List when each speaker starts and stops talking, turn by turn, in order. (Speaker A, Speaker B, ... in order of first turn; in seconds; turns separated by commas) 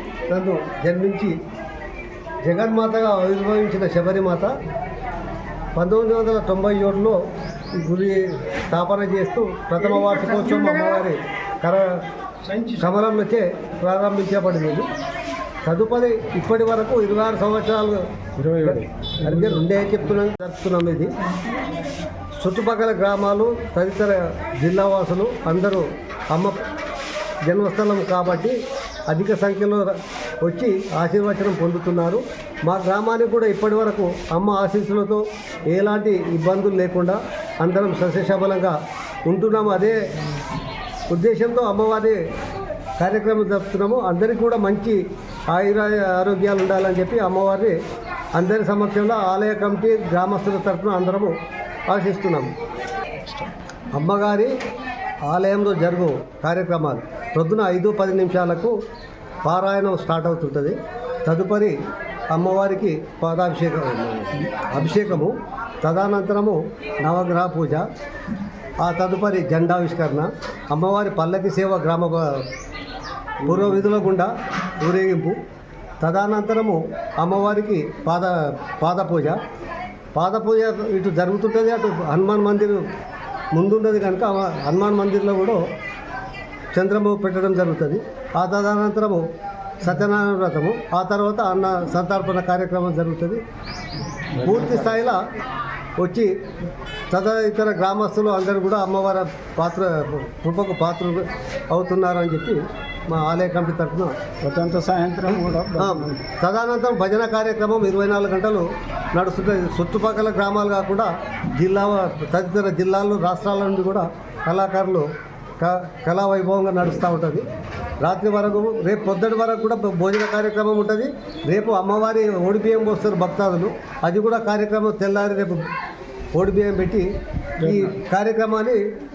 Speaker A: 0.3-1.4, Speaker A: 2.4-4.6, Speaker A: 5.8-7.2, Speaker A: 7.7-12.0, Speaker B: 12.4-12.9, Speaker A: 12.8-14.9, Speaker A: 15.7-18.1, Speaker B: 18.4-19.5, Speaker A: 18.6-21.1, Speaker A: 22.4-26.7, Speaker A: 27.5-28.6, Speaker A: 29.1-38.8, Speaker A: 39.3-40.0, Speaker A: 41.1-42.2, Speaker A: 43.0-47.8, Speaker A: 48.4-51.4, Speaker A: 51.9-52.5, Speaker A: 53.9-54.5, Speaker A: 55.2-58.8, Speaker A: 59.5-61.8, Speaker A: 62.3-67.9, Speaker A: 68.8-72.5, Speaker A: 73.4-75.4, Speaker A: 76.0-79.4, Speaker A: 80.2-82.8, Speaker A: 83.5-85.6, Speaker A: 86.7-89.3, Speaker A: 89.8-93.4, Speaker B: 94.3-95.1, Speaker A: 94.4-95.3, Speaker A: 96.0-96.3, Speaker A: 97.1-104.2, Speaker B: 104.4-106.2, Speaker A: 105.8-117.5, Speaker A: 118.0-125.6, Speaker A: 126.3-127.1, Speaker A: 127.6-128.8, Speaker B: 127.6-128.0